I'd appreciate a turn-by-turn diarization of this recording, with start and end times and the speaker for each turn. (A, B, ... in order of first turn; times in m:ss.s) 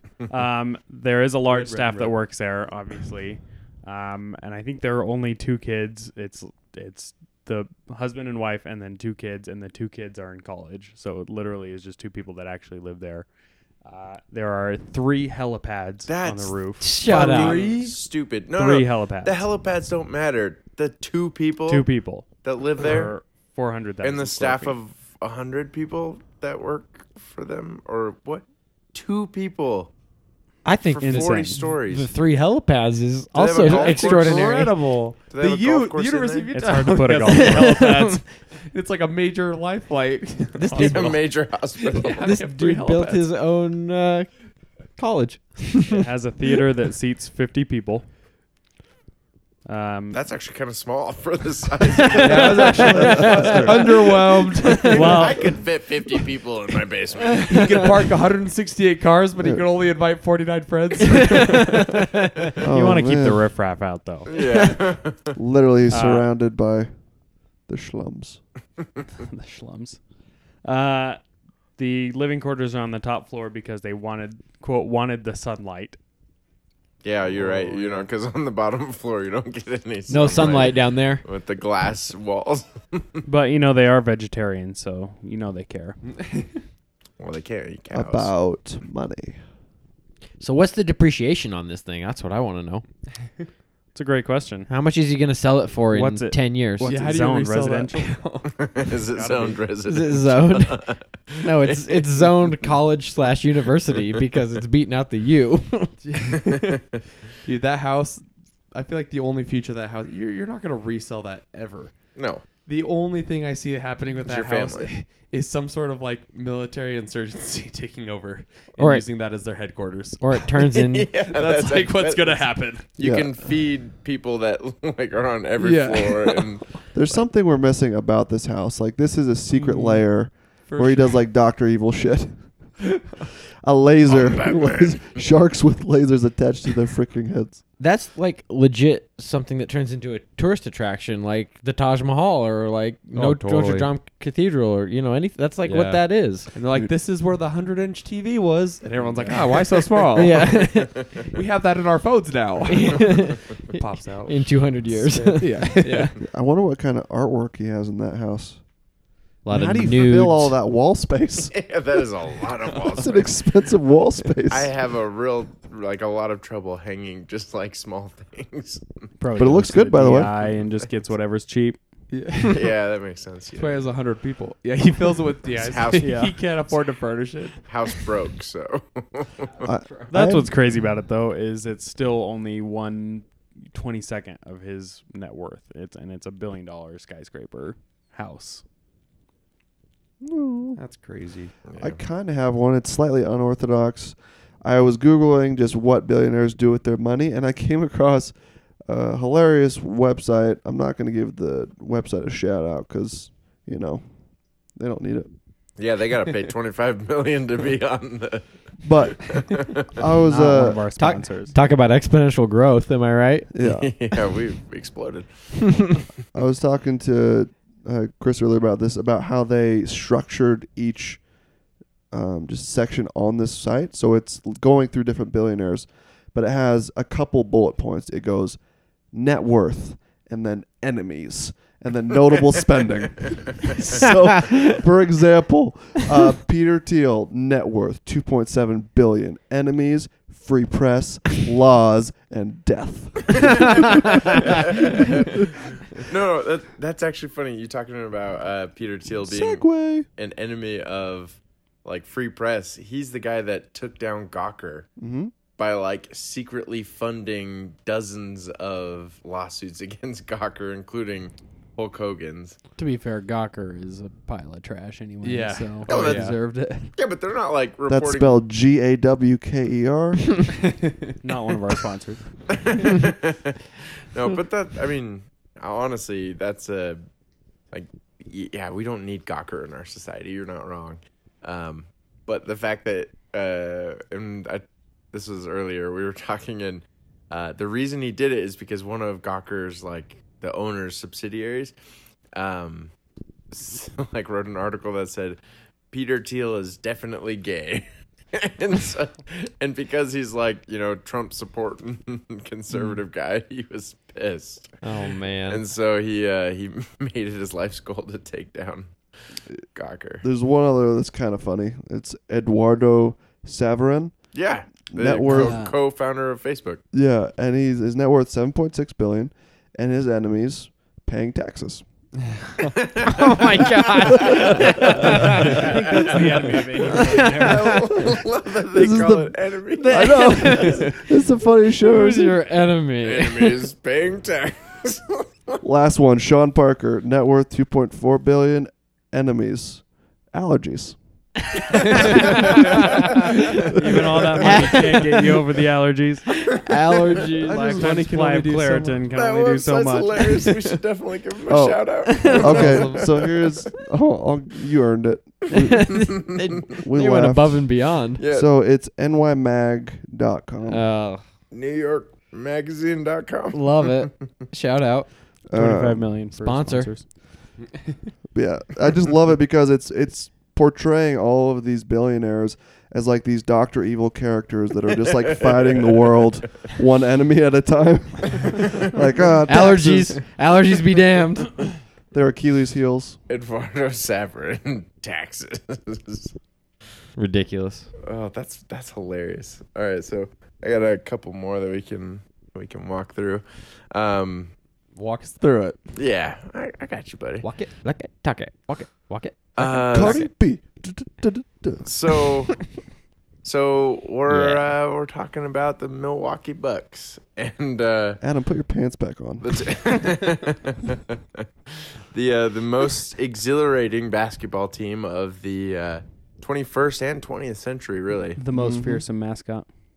0:00.3-0:13.3 A
0:01.5-0:02.1 B
0:13.8-0:17.3 A
0:16.1-0:21.9 C
0:16.8-0:17.7 D
0:17.0-0:17.9 B
0:18.5-0:19.4 A
0:21.7-0:24.8 A
0:22.4-0:23.1 C
0:24.0-0:29.9 C
0:30.6-0:34.8 D
0:30.9-0:32.1 C
0:31.0-0:31.6 A
0:33.3-0:34.7 C
0:33.6-0:41.2 B
0:35.3-0:36.5 C
0:36.5-0:38.2 A
0:37.3-0:38.2 D
0:40.6-0:41.2 D
0:40.7-0:42.4 C
0:40.7-0:41.1 A
0:41.9-0:43.2 B
0:42.0-0:44.3 D
0:45.0-0:46.0 D
0:45.9-0:48.0 A
0:49.6-0:50.2 A
0:50.1-0:53.7 C
0:52.2-0:53.9 A
0:52.2-0:55.3 B
0:52.3-0:53.8 D
0:52.7-0:53.8 E
0:54.7-0:55.2 D
0:54.7-0:55.6 A
0:54.8-0:57.9 C
0:57.4-1:01.9 B
0:59.4-0:59.7 E
1:02.6-1:04.3 A
1:02.6-1:03.4 E
1:04.3-1:05.4 C
1:04.3-1:04.7 D
1:05.4-1:06.9 E
1:05.9-1:06.3 A
1:07.7-1:08.4 E
1:09.2-1:10.0 A
1:10.6-1:11.2 A
1:11.8-1:16.0 A
1:17.0-1:23.2 C
1:17.3-1:18.0 A
1:20.1-1:21.2 D
1:23.3-1:26.0 A
1:27.2-1:28.3 C
1:27.9-1:29.4 E
1:30.4-1:32.8 D
1:34.0-1:34.7 A
1:34.7-1:37.0 D
1:35.9-1:38.2 A
1:36.8-1:39.6 B
1:38.6-1:42.7 C
1:39.9-1:40.8 D
1:41.4-1:45.9 D
1:46.0-1:46.8 B
1:46.3-1:46.8 C
1:47.4-1:48.2 B
1:48.7-1:52.0 B
1:52.1-1:52.4 C
1:52.6-2:00.5 B
1:54.2-1:54.9 C
1:58.8-1:59.0 D
2:00.2-2:01.1 D
2:00.6-2:06.8 C
2:01.3-2:02.8 B
2:03.0-2:03.3 E
2:05.6-2:06.5 B
2:06.9-2:12.9 E
2:09.5-2:11.2 B
2:13.6-2:17.6 E
2:14.1-2:15.2 C
2:17.8-2:26.5 D
2:23.1-2:23.9 B
2:25.6-2:30.6 B
2:29.2-2:29.4 A
2:29.2-2:29.5 D
2:30.1-2:31.0 D
2:31.3-2:34.5 B
2:32.7-2:36.2 D
2:35.0-2:36.1 B
2:36.2-2:38.6 E
2:39.4-2:40.6 D
2:39.5-2:41.6 E
2:41.5-2:43.7 C
2:42.9-2:44.7 E
2:44.4-2:49.1 C
2:49.2-2:51.8 A
2:49.4-2:50.3 E
2:50.2-2:50.8 C
2:52.1-2:52.7 B
2:52.5-2:53.9 C
2:53.6-2:58.1 B
2:55.5-2:56.6 C
2:56.0-2:56.3 A
2:57.6-2:59.6 C
2:59.6-3:00.5 E
3:00.1-3:08.6 A
3:10.2-3:10.8 E
3:10.8-3:11.5 B
3:11.7-3:12.0 C
3:11.8-3:18.3 E
3:18.9-3:24.0 E
3:24.7-3:25.3 E
3:25.8-3:28.4 C
3:28.8-3:30.8 E
3:29.0-3:30.0 C
3:30.3-3:31.6 A
3:31.0-3:33.5 D
3:33.5-3:33.9 E
3:33.6-3:35.3 C
3:36.3-3:41.2 E
3:42.1-3:48.6 E
3:49.1-4:05.0 E
4:04.0-4:14.9 C
4:09.2-4:10.0 E
4:15.0-4:15.3 E
4:15.5-4:22.6 C
4:22.8-4:26.9 A
4:25.2-4:26.4 B
4:25.8-4:26.4 C
4:25.9-4:26.2 D
4:27.0-4:28.3 C
4:27.9-4:30.4 E
4:31.2-4:32.2 A
4:32.5-4:33.6 C
4:34.1-4:37.0 C
4:37.7-4:51.7 C
4:52.3-4:52.9 C
4:53.5-4:55.4 C
4:55.9-5:04.8 C
5:04.8-5:05.6 D
5:05.5-5:08.9 C
5:09.7-5:10.2 C
5:10.2-5:14.1 E
5:14.3-5:16.8 C
5:14.9-5:15.6 E
5:15.3-5:15.7 D
5:16.9-5:21.8 E
5:22.8-5:23.4 C
5:23.0-5:25.7 D
5:24.0-5:30.8 C
5:24.7-5:27.8 A
5:26.2-5:26.6 B
5:26.9-5:27.8 D
5:28.7-5:32.4 E
5:29.8-5:31.0 D
5:31.8-5:33.6 D
5:33.0-5:35.6 C
5:35.6-5:41.0 E
5:41.9-5:42.6 D
5:43.6-5:46.3 A
5:44.4-5:45.4 D
5:46.3-5:47.8 D
5:47.4-5:50.3 A
5:47.4-5:47.9 E
5:47.5-5:49.0 B
5:49.1-5:53.7 C
5:51.5-5:56.2 E
5:52.1-5:52.7 D
5:52.3-5:53.0 B
5:55.5-5:58.2 D
5:56.7-6:00.8 E
5:58.2-5:58.5 C
6:00.7-6:01.2 D
6:01.5-6:04.1 C
6:03.5-6:05.1 D
6:05.5-6:06.1 E
6:05.5-6:07.1 A
6:06.4-6:06.9 D
6:08.3-6:20.2 E
6:15.1-6:16.2 C
6:19.5-6:21.6 D
6:22.1-6:23.2 E
6:23.3-6:26.4 C
6:27.2-6:27.9 D
6:28.0-6:34.5 C
6:35.0-6:35.8 B
6:35.4-6:35.7 E
6:36.0-6:37.4 C
6:37.4-6:40.3 D
6:39.6-6:40.2 C
6:39.8-6:42.5 E
6:41.8-6:42.7 C
6:43.4-6:48.2 C
6:44.3-6:44.7 D
6:48.2-6:49.7 E
6:49.4-6:58.4 C
6:58.4-6:59.7 A
6:58.5-6:59.0 E